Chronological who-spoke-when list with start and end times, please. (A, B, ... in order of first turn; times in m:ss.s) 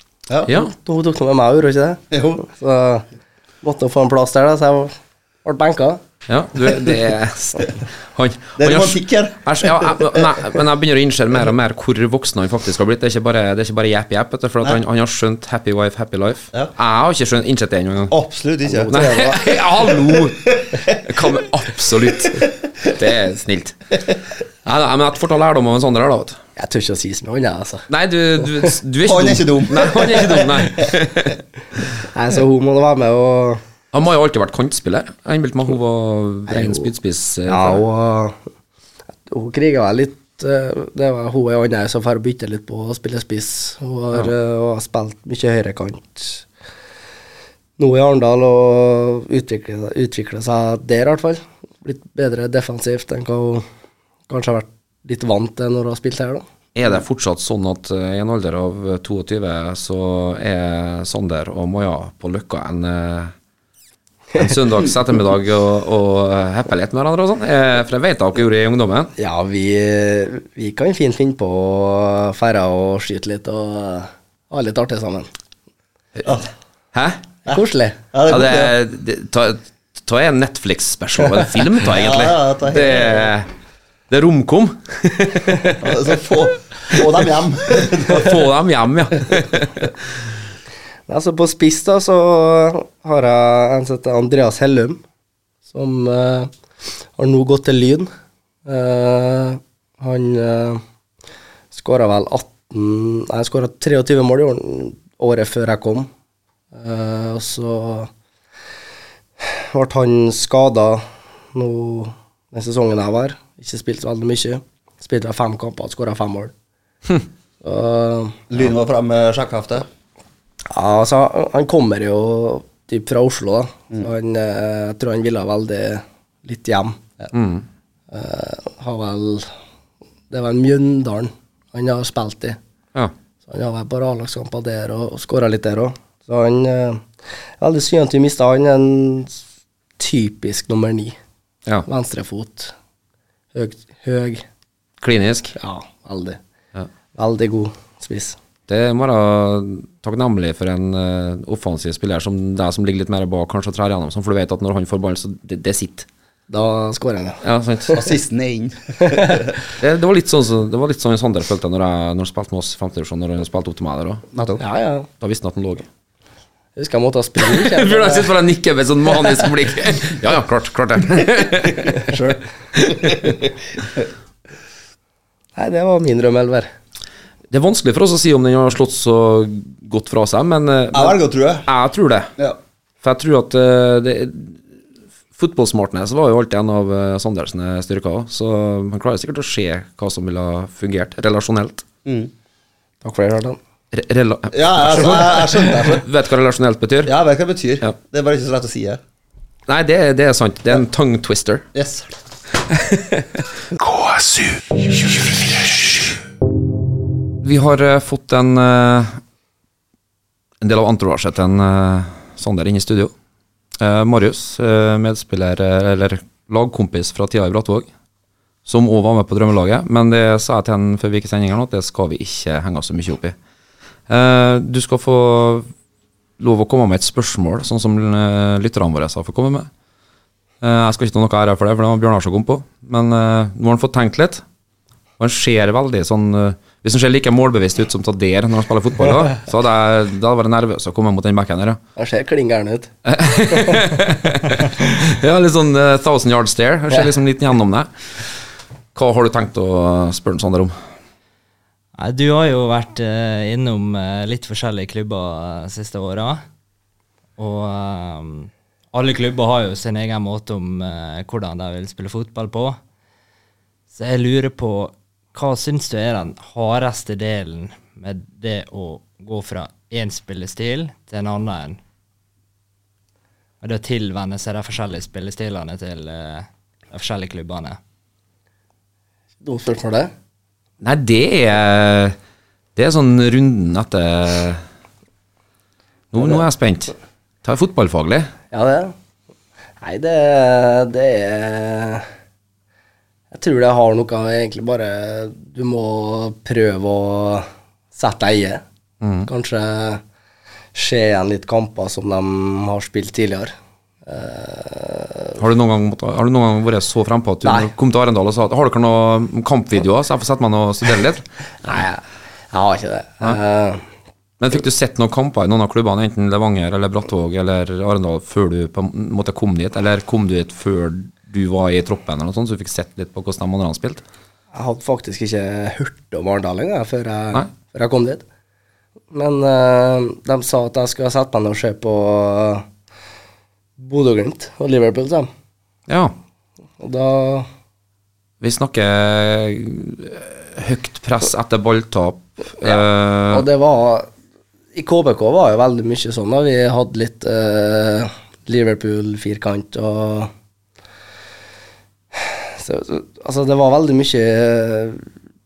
0:00.5-0:00.7 A
0:00.5-0:03.1 B
0:02.1-0:02.4 C
0:03.6-0:06.0 B
0:06.3-0:18.1 A
0:08.6-0:10.5 C
0:18.1-0:19.0 C
0:18.7-0:19.4 B
0:18.9-0:24.0 A
0:20.6-0:21.3 C
0:24.6-0:26.4 A
0:26.6-0:27.9 B
0:27.9-0:31.4 A
0:29.0-0:30.9 C
0:32.1-0:33.6 B
0:33.9-0:37.8 A
0:36.5-0:36.9 B
0:37.5-0:38.4 B
0:39.3-0:46.5 B
0:47.8-0:53.7 B
0:54.3-0:56.4 B
0:56.8-1:03.3 A
1:04.4-1:09.1 A
1:09.2-1:15.3 B
1:16.9-1:17.2 A
1:17.5-1:18.0 B
1:18.1-1:18.8 C
1:18.3-1:23.5 A
1:21.9-1:23.3 C
1:24.1-1:25.7 A
1:25.8-1:28.5 C
1:28.1-1:29.9 A
1:31.1-1:35.0 B
1:35.7-1:36.5 B
1:37.2-1:38.1 B
1:38.7-1:40.8 B
1:41.7-1:46.1 B
1:46.8-1:48.1 B
1:49.4-1:56.5 B
1:57.6-1:58.4 B
1:58.5-1:59.9 C
2:00.7-2:07.0 B
2:07.3-2:07.7 A
2:08.1-2:09.5 B
2:10.3-2:12.6 B
2:13.5-2:17.1 B
2:17.6-2:19.4 B
2:20.0-2:21.2 B
2:21.9-2:22.7 B
2:23.5-2:24.4 B
2:25.0-2:25.5 A
2:25.6-2:26.4 B
2:27.2-2:28.4 B
2:28.7-2:36.1 A
2:36.5-2:37.4 B
2:37.4-2:38.0 A
2:37.9-2:39.5 C
2:39.1-2:39.4 B
2:39.8-2:44.2 A
2:44.3-2:44.6 C
2:44.6-2:45.1 B
2:45.2-2:45.9 A
2:46.8-2:48.3 B
2:47.4-2:52.0 A
2:51.6-2:54.1 C
2:52.8-2:53.0 A
2:55.6-2:56.7 B
2:57.5-3:02.3 A
3:00.9-3:01.7 C
3:03.0-3:04.6 A
3:05.4-3:11.8 A
3:12.0-3:12.3 C
3:13.0-3:13.6 B
3:13.9-3:17.1 A
3:14.5-3:16.1 C
3:17.0-3:19.0 C
3:19.7-3:21.7 A
3:21.7-3:22.1 C
3:22.7-3:23.4 A
3:23.8-3:26.2 D
3:27.4-3:29.2 A
3:30.6-3:33.1 A
3:33.8-3:37.9 A
3:38.7-3:43.4 A
3:44.1-3:45.7 A
3:46.4-3:49.7 A
3:50.6-3:54.4 A
3:55.2-4:01.8 A
4:02.0-4:02.9 B
4:03.0-4:07.9 A
4:08.9-4:10.8 A
4:12.0-4:16.4 E
4:17.4-4:22.8 E
4:23.9-4:31.8 E
4:33.6-4:37.8 E
4:39.4-4:40.1 B
4:40.8-4:42.2 A
4:42.8-4:44.6 A
4:46.1-4:48.3 A
4:48.5-4:49.0 B
4:49.8-4:52.1 B
4:53.3-4:58.6 B
4:59.0-4:59.3 A
4:59.3-5:00.0 B
5:00.7-5:03.5 B
5:04.1-5:05.4 B
5:05.4-5:11.8 A
5:07.4-5:07.7 B
5:11.6-5:13.8 B
5:14.4-5:24.0 A
5:24.5-5:28.2 B
5:29.1-5:32.7 B
5:33.8-5:35.3 B
5:35.9-5:36.1 A
5:36.8-5:37.5 B
5:38.4-5:43.4 A
5:42.6-5:44.1 B
5:44.7-5:50.3 B
5:52.1-5:55.0 B